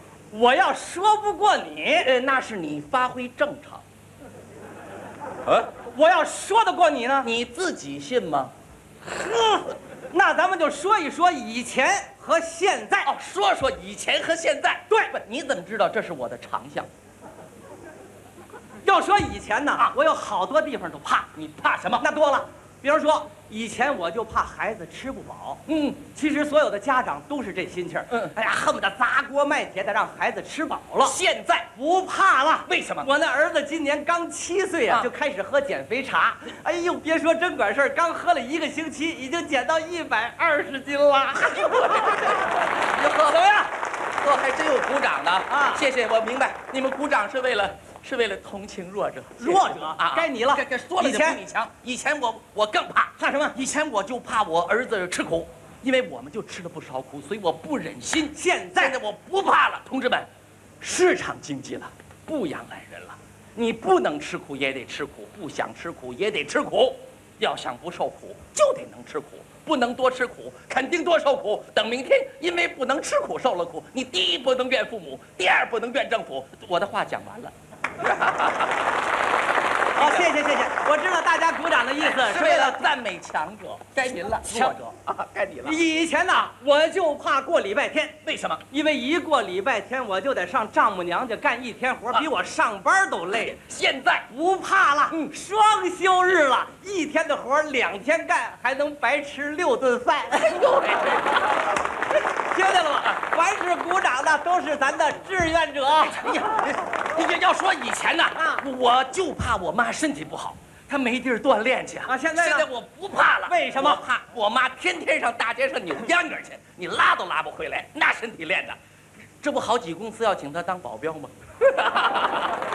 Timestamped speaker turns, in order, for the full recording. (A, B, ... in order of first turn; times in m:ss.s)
0:00.3-0:02.1 A
0:02.0-0:03.8 B
0:05.9-0:07.3 A
0:07.2-0:08.5 B
0:09.1-0:13.1 A
0:13.0-0:16.9 B
0:18.8-0:21.3 A
0:21.3-0:22.1 B
0:22.0-0:31.2 A
0:25.7-0:26.0 B
0:31.0-0:31.7 B
0:31.7-0:42.4 A
0:32.7-0:33.1 B
0:41.3-1:00.3 B
0:45.5-0:45.8 A
0:49.4-0:51.4 A
0:53.2-0:53.6 A
0:58.3-0:59.0 A
1:00.8-1:18.7 B
1:20.0-1:20.3 B
1:20.0-1:22.9 A
1:22.0-1:25.8 B
1:24.4-1:24.8 A
1:25.6-1:33.6 A
1:28.2-1:28.6 B
1:33.4-1:34.3 B
1:34.3-1:40.6 A
1:40.3-1:41.6 B
1:42.5-1:46.3 A
1:46.1-1:58.8 B
1:48.4-1:48.6 A
1:52.1-1:52.7 A
1:53.5-1:54.0 A
1:59.4-2:02.5 B